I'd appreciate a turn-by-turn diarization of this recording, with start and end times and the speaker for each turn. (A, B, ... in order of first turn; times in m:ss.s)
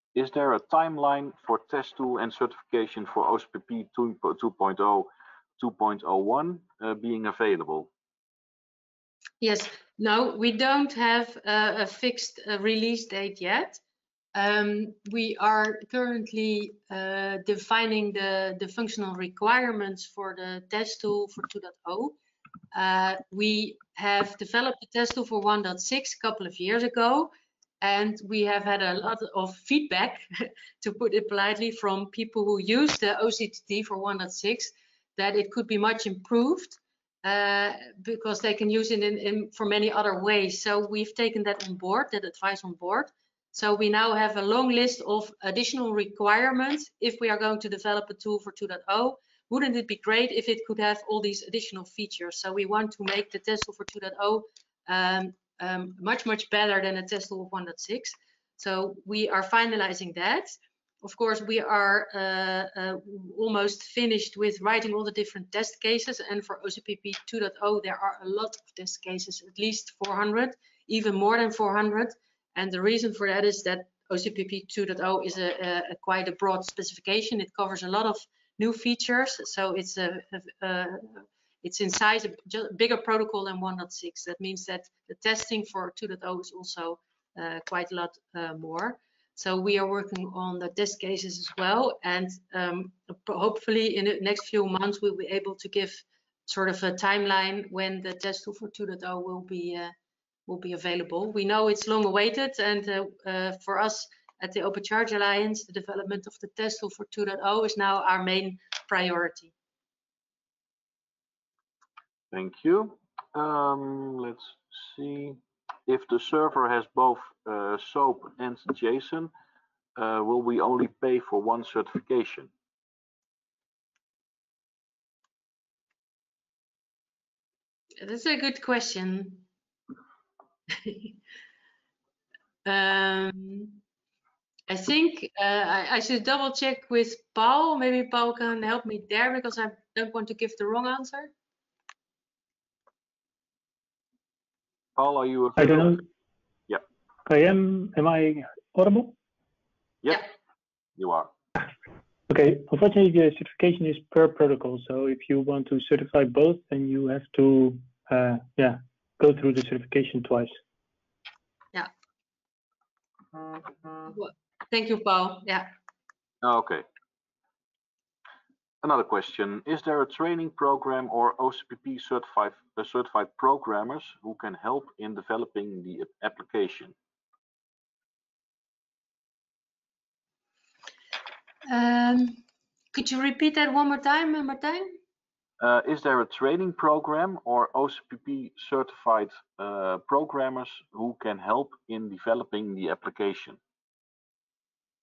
0:00.2-0:07.9 A
0:09.4-0:13.8 B
0:14.3-0:22.2 B
0:22.7-1:39.9 B
1:40.5-1:49.5 B
1:52.3-1:59.3 A
2:00.0-2:02.5 A
2:08.0-2:09.4 B
2:10.7-2:11.2 B
2:12.6-2:13.8 B
2:14.7-2:21.3 B
2:25.0-2:26.0 A
2:25.6-2:26.0 C
2:27.3-2:29.2 C
2:30.0-2:30.3 A
2:31.0-2:31.3 A
2:32.3-2:40.5 C
2:44.1-2:45.7 B
2:46.4-2:46.8 A
2:48.8-2:57.0 A
3:01.7-3:05.0 B
3:05.6-3:13.6 A